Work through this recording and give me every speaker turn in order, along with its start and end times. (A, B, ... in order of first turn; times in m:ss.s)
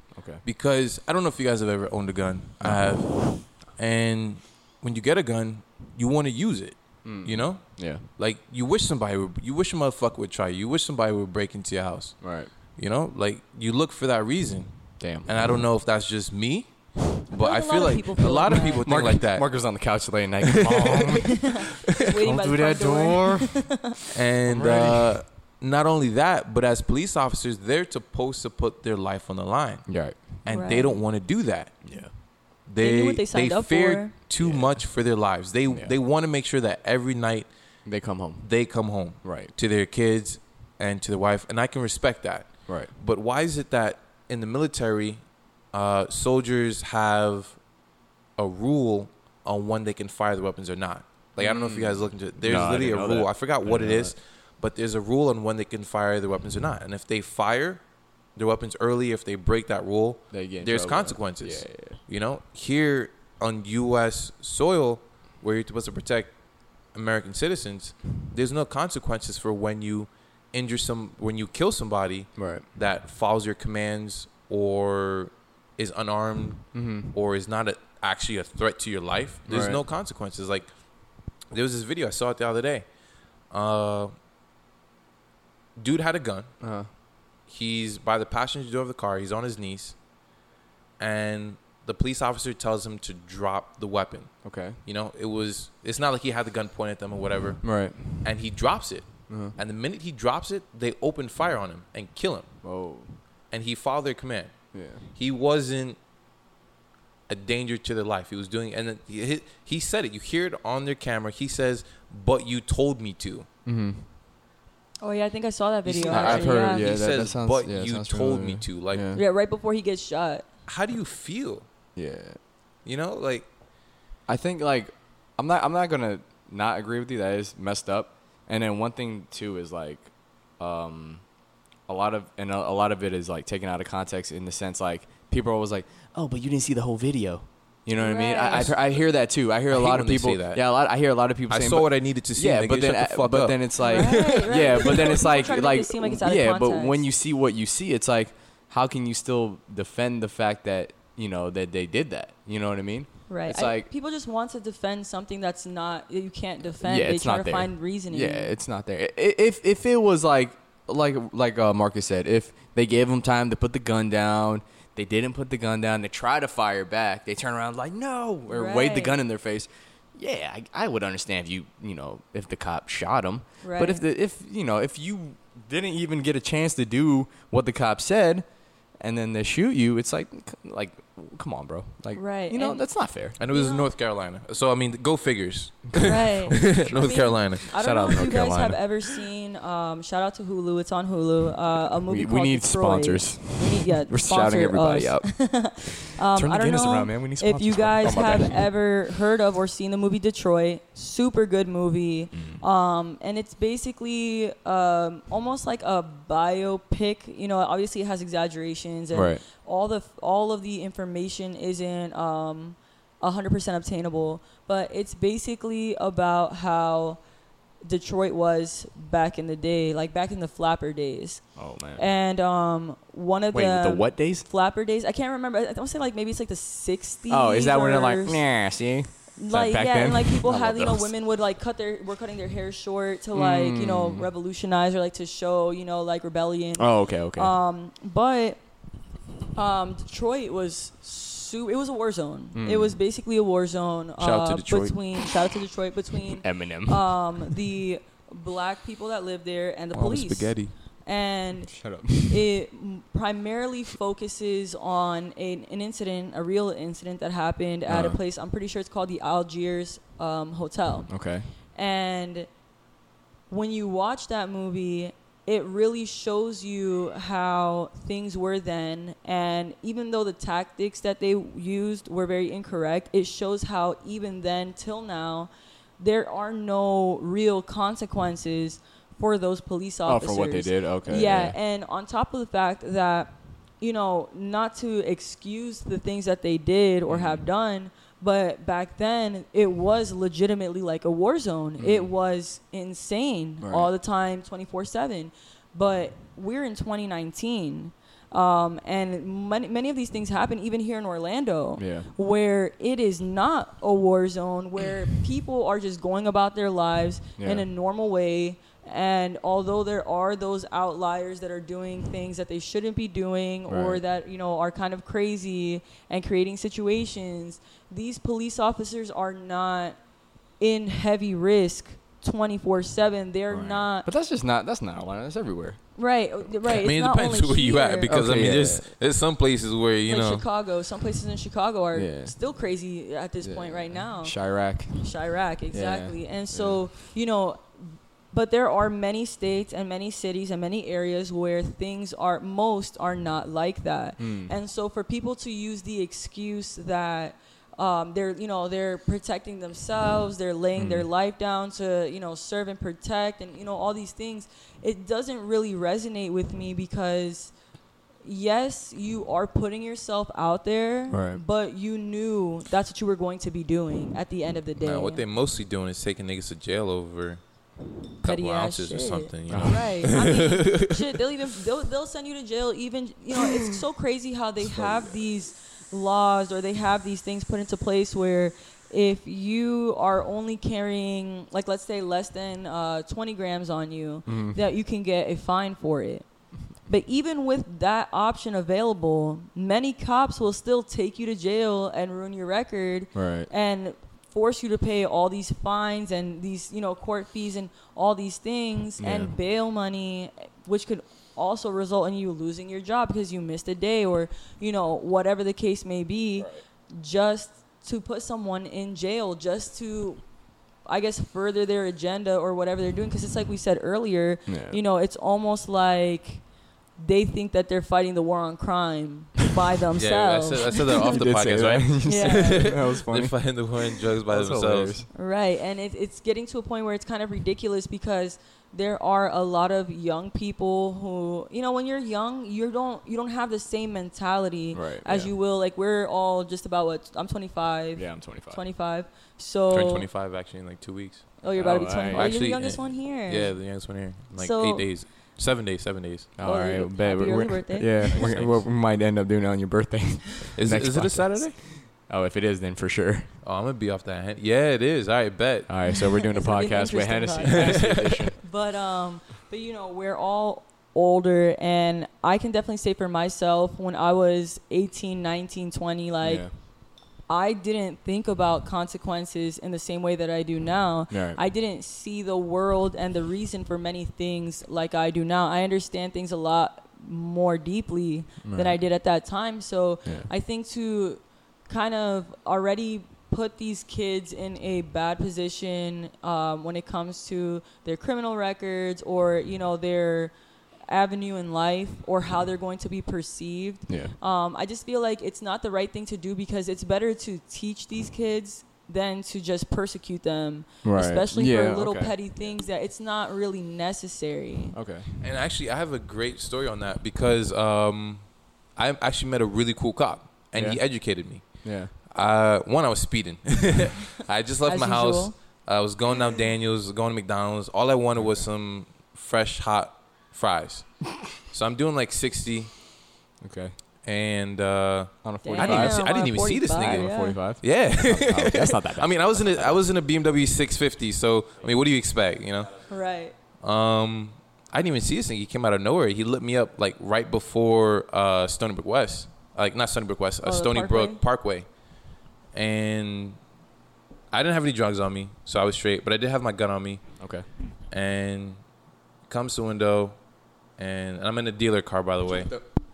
0:00.1-0:00.4 A
0:00.4-0:19.7 B
0:02.6-0:03.4 A
0:07.0-0:08.0 A
0:12.2-0:12.5 A
0:15.0-0:15.5 A
0:17.3-0:19.2 C
0:18.7-0:23.8 A
0:20.5-0:21.2 B
0:21.4-0:23.9 C
0:24.1-0:31.9 B
0:24.4-0:25.2 A
0:29.9-0:30.4 A
0:30.5-0:31.0 C
0:31.8-0:32.1 A
0:32.6-0:37.5 B
0:32.8-0:34.1 C
0:34.4-0:34.8 A
0:35.7-0:35.9 A
0:37.8-0:38.5 A
0:38.4-0:47.6 B
0:39.2-0:39.5 A
0:42.7-0:42.9 A
0:48.4-0:57.8 B
0:51.4-0:54.1 A
0:58.3-1:06.3 B
1:00.3-1:02.0 A
1:06.9-1:20.7 B
1:12.4-1:12.6 A
1:16.7-1:17.1 A
1:19.5-1:19.8 A
1:21.5-1:22.9 B
1:23.5-1:24.1 B
1:25.8-1:26.5 B
1:26.6-1:26.9 A
1:27.5-1:30.0 B
1:31.0-1:42.5 B
1:34.4-1:34.8 A
1:37.6-1:38.3 A
1:39.3-1:39.5 A
1:42.6-1:43.2 A
1:43.5-1:46.0 B
1:44.7-1:45.0 A
1:47.3-1:53.5 B
1:53.6-1:54.1 A
1:55.0-1:56.9 C
1:55.8-1:59.1 B
1:56.0-1:59.2 A
1:59.1-2:00.4 C
2:00.6-2:01.7 B
2:01.9-2:02.4 A
2:02.8-2:03.5 B
2:04.3-2:11.2 A
2:11.9-2:33.9 A
2:18.0-2:18.7 C
2:19.7-2:20.6 B
2:21.5-2:24.2 B
2:23.8-2:27.0 C
2:33.3-2:38.5 C
2:36.8-2:58.4 A
2:48.5-2:49.2 C
2:53.6-2:54.0 C
2:59.0-3:03.4 A
3:02.2-3:02.8 C
3:03.4-3:07.7 B
3:03.4-3:03.9 C
3:05.9-3:09.2 A
3:06.0-3:37.2 C
3:12.1-3:18.7 A
3:22.3-3:22.6 A
3:29.1-3:29.4 A
3:37.8-3:48.4 C
3:41.6-3:42.0 A
3:43.5-3:44.5 A
3:47.3-3:51.1 A
3:49.4-3:58.6 C
3:53.3-3:54.3 A
3:56.8-3:57.5 A
3:59.5-4:21.1 C
4:02.5-4:03.0 A
4:04.2-4:05.3 B
4:06.3-4:07.5 A
4:09.9-4:10.7 B
4:11.7-4:12.5 A
4:17.9-4:18.2 A
4:21.1-4:21.5 A
4:21.7-4:22.5 C
4:23.5-5:20.0 C
4:40.0-4:41.6 A
4:47.1-4:47.4 A
4:51.8-4:52.1 A
4:53.6-4:53.9 A
5:01.8-5:02.1 A
5:07.4-5:07.7 A
5:13.7-5:14.0 A
5:20.6-5:24.1 C
5:23.5-5:25.8 A
5:26.0-5:28.2 C
5:26.6-5:30.4 B
5:28.0-5:28.9 A
5:30.1-5:57.5 C
5:31.9-5:32.4 A
5:33.4-5:35.1 A
5:35.7-5:36.8 A
5:44.2-5:44.5 A
5:50.8-5:51.1 A
5:58.2-6:05.2 C
6:01.1-6:01.4 A
6:04.8-6:07.4 B
6:08.2-6:11.0 B
6:08.2-6:26.3 C
6:09.5-6:10.2 A
6:24.3-6:24.6 A
6:26.8-6:50.2 C
6:33.1-6:33.5 A
6:39.0-6:39.3 A
6:50.8-6:56.4 C
6:54.5-6:54.8 A
6:57.0-7:01.1 C
6:59.9-7:05.0 B
7:01.0-7:05.1 A
7:02.0-7:02.8 C
7:05.1-7:20.1 C
7:14.7-7:15.3 A
7:18.0-7:18.6 A
7:19.7-7:26.3 B
7:21.4-7:23.8 C
7:21.5-7:22.4 A
7:24.3-7:25.0 C
7:26.4-7:33.3 A
7:26.4-7:28.3 C
7:28.0-7:28.6 B
7:30.6-7:31.6 B
7:33.4-7:36.1 B
7:35.7-7:38.4 A
7:36.1-7:46.6 C
7:37.6-7:38.1 B
7:46.2-7:46.5 A
7:47.3-8:10.3 C
7:51.1-7:51.4 A
7:58.4-7:58.8 A
8:10.9-8:24.7 C
8:13.9-8:14.1 A
8:20.8-8:22.1 A
8:24.7-8:25.2 A
8:25.2-8:42.7 B
8:30.5-8:31.9 A
8:34.6-8:35.4 C
8:38.2-8:38.4 A
8:43.4-8:43.8 A
8:44.0-8:52.8 B
8:45.2-8:46.3 A
8:45.4-8:47.4 C
8:46.8-8:49.8 A
8:52.9-8:53.3 C
8:53.6-9:01.7 B
9:00.4-9:01.2 C
9:02.5-9:03.4 B
9:04.3-9:07.2 B
9:07.2-9:07.5 A
9:07.9-9:08.6 B
9:09.3-9:10.2 B
9:10.8-9:12.5 B
9:12.2-9:12.6 A